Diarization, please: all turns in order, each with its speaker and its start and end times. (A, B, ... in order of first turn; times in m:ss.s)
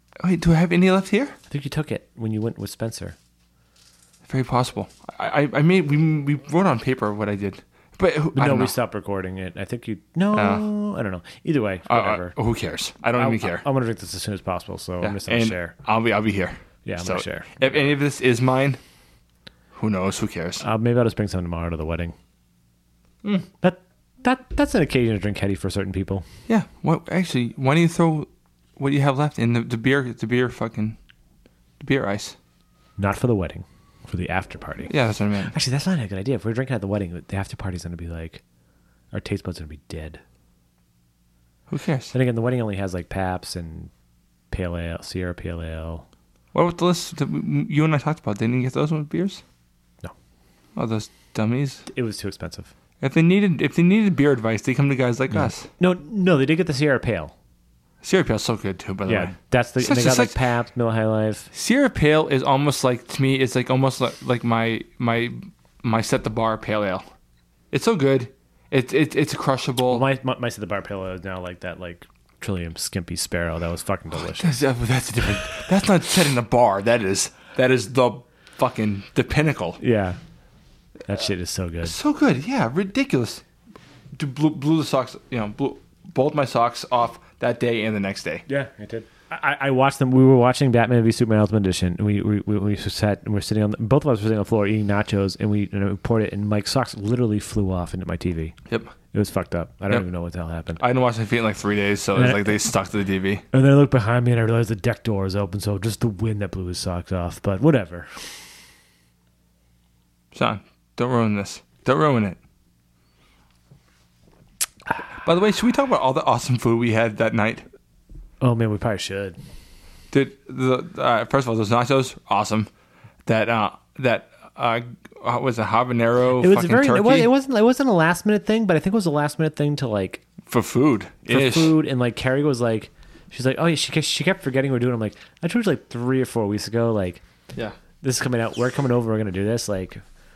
0:00.2-0:01.4 A
0:01.5-0:03.2 B
0:04.2-0:08.7 A
0:08.3-0:12.3 B
0:10.3-0:10.6 A
0:11.9-0:13.6 A
0:13.2-0:15.7 B
0:15.0-0:18.8 A
0:16.8-0:17.6 B
0:19.7-0:20.6 A
0:20.6-0:22.1 B
0:23.6-0:26.2 B
0:26.5-0:31.0 A
0:31.8-0:32.4 A
0:33.0-0:34.9 B
0:34.9-0:35.5 A
0:35.4-0:38.4 B
0:39.1-0:40.2 B
0:41.7-0:42.1 A
0:42.1-0:43.9 B
0:44.5-0:46.0 B
0:46.5-0:49.4 A
0:50.8-0:51.8 A
0:51.9-0:52.7 B
0:53.0-0:55.7 A
0:55.7-0:57.3 B
0:58.0-1:00.4 A
0:59.0-1:01.5 B
1:01.5-1:07.0 A
1:07.7-1:10.0 A
1:09.9-1:14.6 B
1:14.2-1:19.8 A
1:19.8-1:20.2 B
1:21.1-1:21.9 B
1:21.8-1:23.4 A
1:24.2-1:28.4 A
1:28.5-1:38.5 B
1:39.1-1:40.8 B
1:40.8-1:43.4 A
1:42.1-1:42.6 B
1:43.5-1:48.4 B
1:50.3-1:52.4 A
1:55.2-1:57.6 A
1:58.4-1:59.4 B
2:00.1-2:02.7 A
2:03.2-2:07.3 A
2:06.4-2:10.2 B
2:10.4-2:11.7 A
2:11.2-2:17.2 B
2:18.0-2:20.0 B